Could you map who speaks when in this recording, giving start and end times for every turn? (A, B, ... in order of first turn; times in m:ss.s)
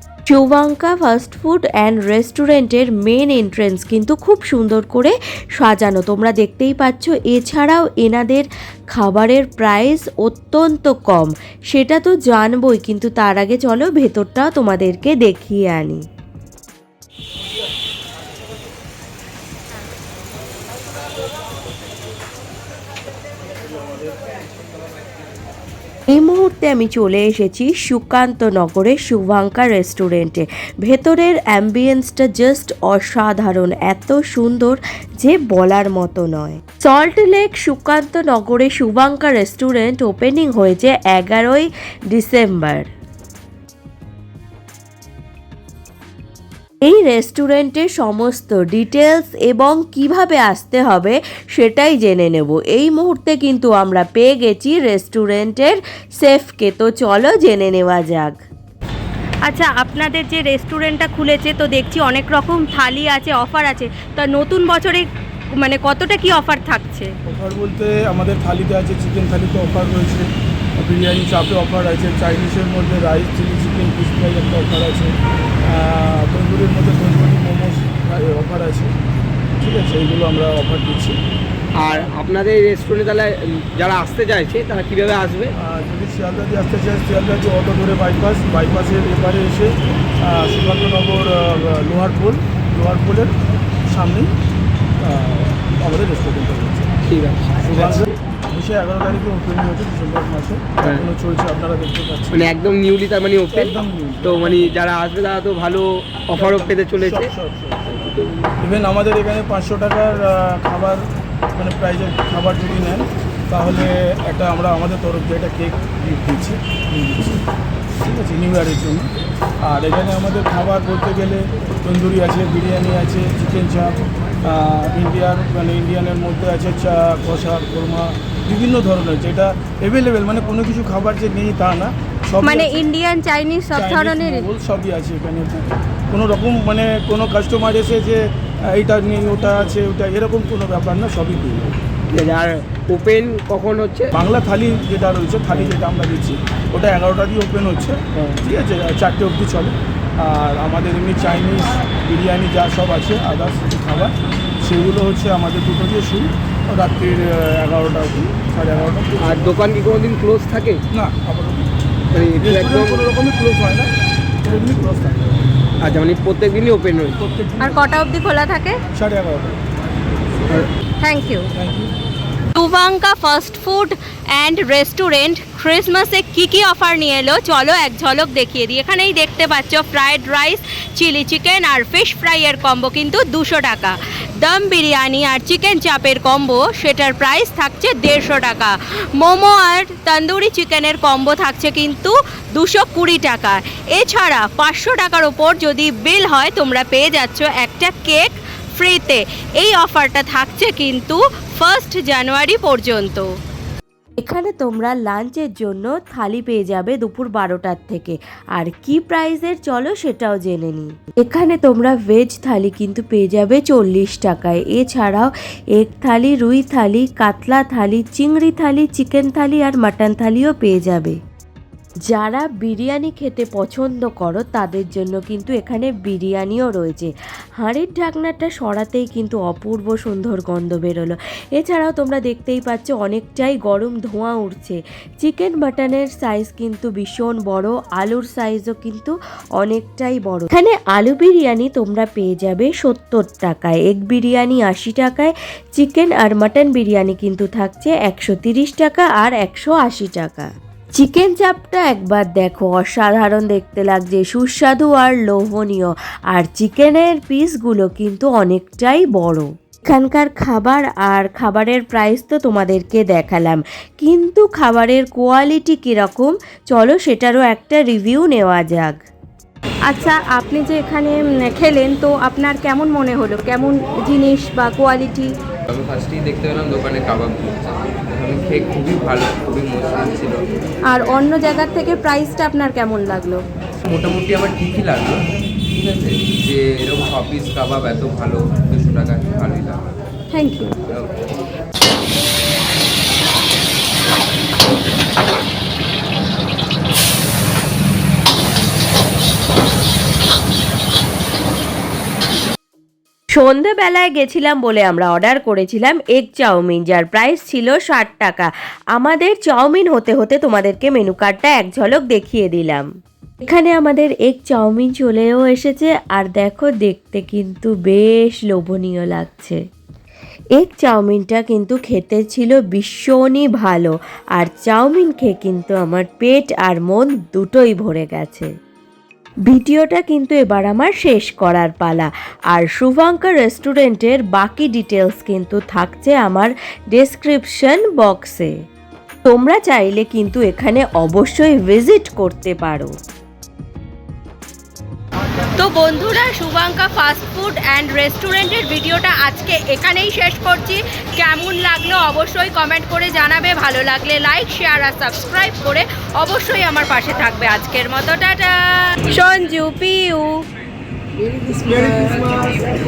0:00.3-0:16.0 A
0:26.1-0:42.9 A
0:46.8-0:58.3 A
0:59.5-1:07.1 B
1:07.2-1:15.1 C
1:15.6-1:18.9 C
1:19.6-1:21.2 C
1:21.8-1:25.5 D
1:25.6-1:33.3 C
1:33.9-1:34.3 C
1:35.0-1:36.9 C
1:37.0-1:38.0 D
1:37.6-1:42.4 C
1:40.8-1:41.1 D
1:42.3-1:47.3 D
1:43.5-1:44.7 C
1:46.3-1:48.0 C
1:48.0-1:48.3 D
1:48.6-1:51.0 C
1:51.6-1:57.4 C
1:58.0-1:59.1 C
1:59.6-2:12.8 C
2:12.4-2:14.5 B
2:13.7-2:21.8 C
2:22.1-2:24.1 D
2:24.1-2:39.5 C
2:39.2-2:40.8 D
2:40.9-2:41.7 C
2:42.1-2:43.1 D
2:42.4-2:43.9 C
2:44.4-2:45.4 C
2:45.8-2:47.2 D
2:47.2-2:47.8 C
2:47.6-2:48.8 B
2:48.9-2:49.6 C
2:51.0-2:51.5 B
2:51.6-2:51.9 C
2:52.5-3:23.3 B
3:24.2-3:41.2 A
3:42.1-4:29.0 A
4:29.9-4:35.3 B
4:35.7-4:40.4 E
4:40.9-4:43.4 B
4:43.9-4:45.2 E
4:45.7-4:49.8 E
4:50.3-4:50.7 B
5:03.3-5:12.9 A
5:13.4-5:19.6 A
5:20.6-5:28.5 A
5:29.5-5:38.5 A
5:39.2-5:42.9 A
5:45.6-6:00.4 B